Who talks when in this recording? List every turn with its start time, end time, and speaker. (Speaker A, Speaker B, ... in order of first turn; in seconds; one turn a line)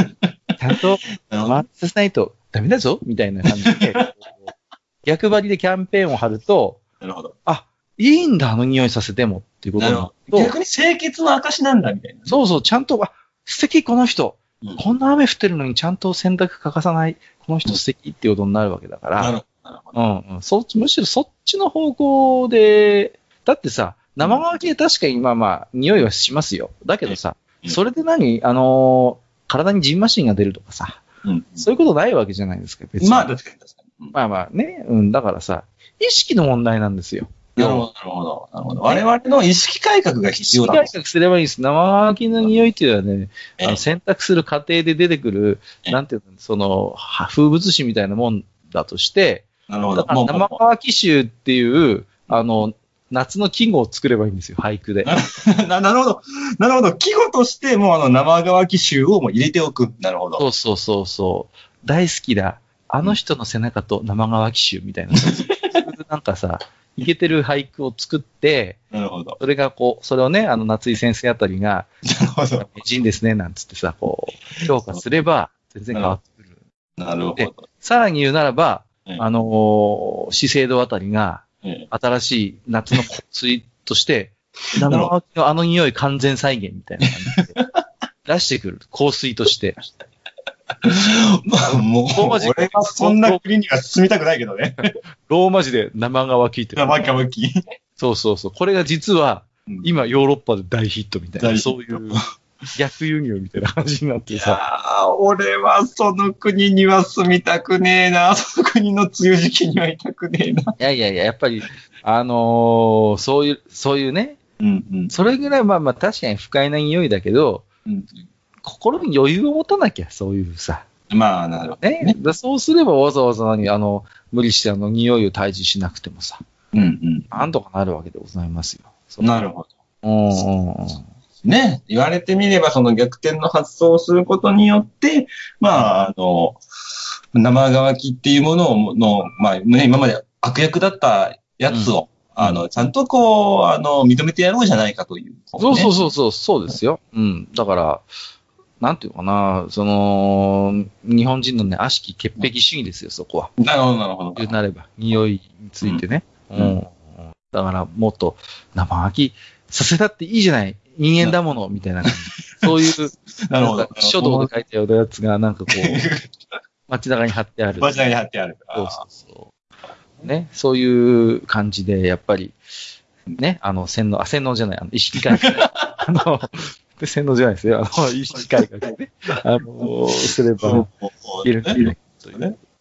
Speaker A: 0.6-4.5
Speaker B: 1.3-1.6
Speaker B: 3.7-4.1
Speaker A: 5.0-6.8
Speaker B: 7.0-7.3
Speaker A: 7.4-10.5
Speaker B: 9.8-12.3
Speaker A: 12.3-19.3
Speaker B: 19.2-19.9
Speaker A: 19.9-31.0
Speaker B: 27.1-27.8
Speaker B: 31.2-31.6
Speaker A: 31.6-33.3
Speaker B: 33.0-34.1
Speaker A: 34.1-37.9
Speaker B: 37.5-40.9
Speaker A: 40.4-55.1
Speaker B: 49.7-50.6
Speaker B: 55.0-60.4
Speaker A: 60.4-68.8
Speaker B: 65.2-65.8
Speaker B: 68.9-69.4
Speaker A: 69.4-71.9
Speaker B: 72.1-72.7
Speaker A: 72.6-76.4
Speaker B: 77.0-77.6
Speaker A: 77.3-87.5
Speaker B: 84.8-85.1
Speaker B: 87.4-87.7
Speaker A: 88.2-89.8
Speaker B: 90.8-94.9
Speaker A: 92.1-93.4
Speaker A: 95.3-97.0
Speaker B: 96.8-97.5
Speaker A: 98.0-102.2
Speaker B: 101.4-102.2
Speaker A: 102.7-104.6
Speaker B: 104.3-110.7
Speaker A: 110.8-114.4
Speaker B: 114.6-115.1
Speaker A: 115.1-117.7
Speaker B: 117.8-118.2
Speaker A: 118.6-120.9
Speaker B: 121.1-122.2
Speaker A: 121.8-126.4
Speaker B: 126.7-127.3
Speaker A: 127.3-129.4
Speaker B: 129.2-129.7
Speaker A: 130.0-131.0
Speaker B: 131.4-136.6
Speaker B: 137.3-145.9
Speaker A: 141.7-142.6
Speaker A: 145.6-148.1
Speaker A: 148.8-153.5
Speaker B: 153.6-154.5
Speaker A: 154.3-166.0
Speaker B: 162.0-162.9
Speaker B: 163.5-164.5
Speaker B: 165.7-166.4
Speaker A: 166.9-168.0
Speaker B: 167.8-169.0
Speaker A: 168.7-169.5
Speaker A: 170.2-172.6
Speaker A: 173.4-180.9
Speaker B: 175.4-175.8
Speaker B: 180.6-182.6
Speaker A: 181.4-182.4